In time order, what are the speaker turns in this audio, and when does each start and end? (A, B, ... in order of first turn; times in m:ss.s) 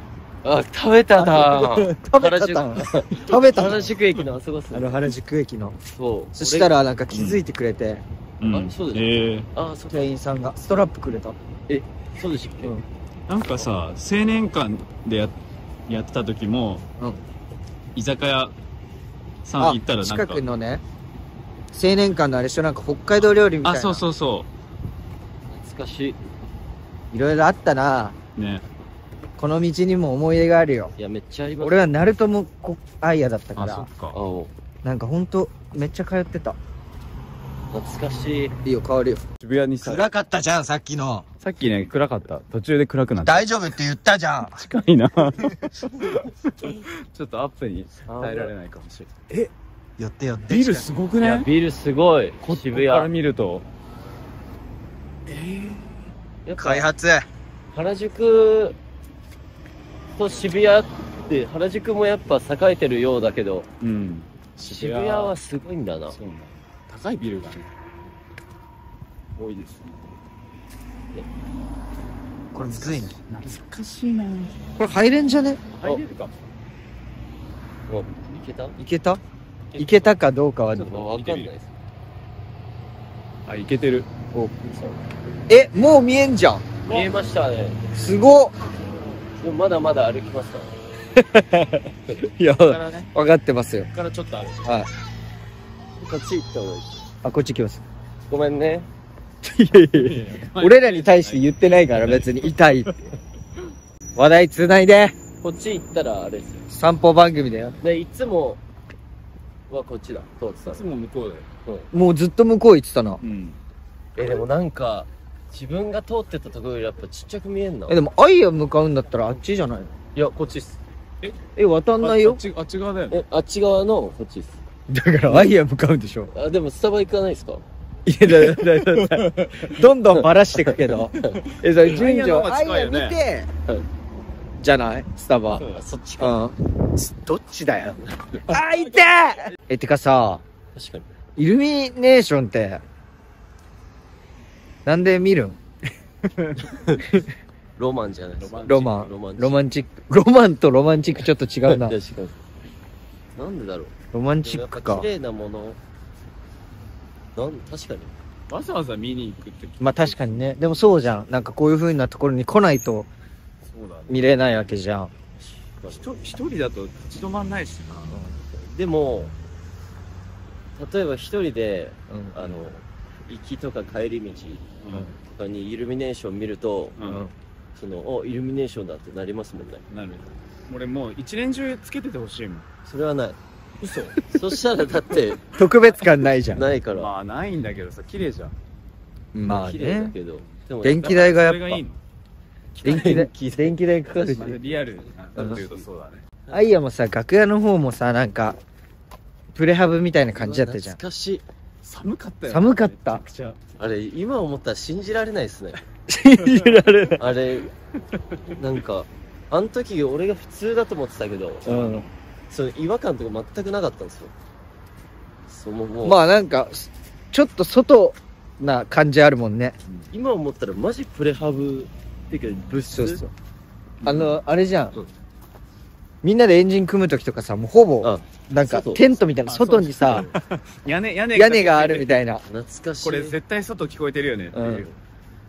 0:00.4-0:05.0 A
0:01.2-0:03.8 B
0:04.7-0:05.8 B
0:05.9-0:06.8 A
0:06.3-0:08.0 B
0:07.1-0:07.4 C
0:08.4-0:09.5 C
0:08.5-0:10.1 A
0:09.9-0:11.4 B
0:11.7-0:12.7 A
0:13.3-0:15.3 C
0:15.9-0:16.8 C
0:18.0-0:18.5 C
0:19.4-0:20.4 C
0:19.6-0:20.8 B
0:21.7-0:24.0 B
0:23.6-0:24.5 C
0:25.5-0:26.2 A
0:27.1-0:28.1 B
0:28.4-0:28.6 C
0:29.4-0:30.9 B
0:31.0-0:32.0 A
0:31.6-0:33.9 B
0:33.6-0:34.2 C
0:34.1-0:34.5 A
0:34.8-0:36.6 B
0:37.7-0:38.5 A
0:38.6-0:39.2 B
0:39.4-0:40.1 C
0:39.8-0:41.2 B
0:41.4-0:43.5 C
0:43.2-0:44.6 B
0:44.6-0:49.5 C
0:48.1-0:48.5 A
0:50.0-0:50.9 B
0:50.5-0:51.5 C
0:51.2-0:53.1 A
0:52.4-0:53.6 C
0:55.3-0:56.0 C
0:56.4-0:56.9 A
0:56.6-0:57.2 B
0:57.7-0:58.8 A
1:00.2-1:03.7 A
1:03.8-1:05.3 C
1:04.6-1:06.2 A
1:06.1-1:07.7 C
1:09.4-1:10.1 C
1:12.5-1:13.2 B
1:12.6-1:14.5 C
1:14.8-1:15.6 B
1:15.7-1:16.3 C
1:17.9-1:18.8 A
1:18.8-1:19.2 B
1:19.7-1:20.1 A
1:19.8-1:20.9 B
1:20.8-1:21.5 C
1:20.9-1:21.7 A
1:23.5-1:24.1 C
1:24.3-1:24.7 B
1:24.7-1:25.0 A
1:25.5-1:26.7 B
1:26.8-1:27.8 A
1:27.9-1:28.5 B
1:29.3-1:30.7 A
1:31.2-1:33.9 B
1:32.5-1:33.1 C
1:33.9-1:34.8 C
1:36.0-1:37.0 A
1:37.2-1:37.8 B
1:38.3-1:38.9 A
1:39.4-1:42.9 B
1:40.0-1:43.1 C
1:44.2-1:45.2 B
1:45.4-1:46.6 A
1:46.7-1:47.8 B
1:47.8-1:48.6 A
1:49.7-1:50.8 A
1:50.6-1:51.4 C
1:51.9-1:53.2 B
1:53.2-1:53.6 C
1:54.2-1:58.0 A
1:57.9-1:59.9 B
2:00.1-2:00.7 A
2:01.6-2:02.4 B
2:02.0-2:03.2 C
2:03.1-2:04.6 A
2:04.9-2:06.3 B
2:06.3-2:07.6 A
2:08.0-2:13.5 B
2:08.3-2:09.7 C
2:10.6-2:11.4 A
2:11.8-2:13.2 C
2:14.6-2:15.6 B
2:15.6-2:15.8 C
2:15.7-2:16.4 A
2:16.2-2:20.4 B
2:20.7-2:21.0 A
2:21.4-2:22.8 B
2:24.8-2:25.6 B
2:26.7-2:27.0 A
2:27.8-2:29.6 A
2:28.4-2:29.0 C
2:28.6-2:31.9 B
2:31.6-2:32.4 A
2:33.3-2:35.8 A
2:34.1-2:35.1 B
2:37.3-2:38.1 A
2:38.5-2:40.4 C
2:39.8-2:43.1 B
2:43.6-2:44.4 C
2:44.1-2:45.1 B
2:45.8-2:46.0 A
2:45.9-2:48.2 C
2:48.6-2:49.3 A
2:50.8-2:54.6 A
2:52.1-2:52.5 B
2:54.8-2:55.2 C
2:55.3-2:57.0 A
2:57.0-2:57.2 C
2:57.0-2:57.3 B
2:57.7-2:59.8 A
2:59.9-3:02.6 C
3:02.8-3:03.4 A
3:03.8-3:04.2 C
3:04.3-3:05.4 A
3:05.5-3:06.6 B
3:06.5-3:07.1 A
3:06.9-3:08.5 C
3:09.3-3:10.1 B
3:09.5-3:11.2 A
3:10.8-3:11.8 B
3:11.0-3:12.0 C
3:12.8-3:13.3 C
3:12.8-3:14.6 A
3:12.8-3:14.6 B
3:14.3-3:16.2 C
3:15.3-3:15.8 A
3:15.4-3:15.6 B
3:16.5-3:18.6 B
3:19.5-3:21.0 B
3:20.3-3:21.4 A
3:21.8-3:23.6 C
3:22.5-3:23.2 B
3:23.8-3:25.8 A
3:26.1-3:27.2 B
3:26.4-3:26.8 C
3:27.2-3:27.7 A
3:28.6-3:34.3 A
3:31.6-3:32.1 B
3:35.5-3:36.2 A
3:36.0-3:39.8 B
3:40.1-3:43.2 A
3:42.9-3:43.3 B
3:44.0-3:44.4 C
3:44.0-3:44.9 B
3:46.2-3:50.3 B
3:48.0-3:49.0 A
3:49.4-3:52.2 C
3:51.3-3:52.4 B
3:52.4-3:53.4 A
3:53.0-3:54.9 C
3:54.5-3:54.8 B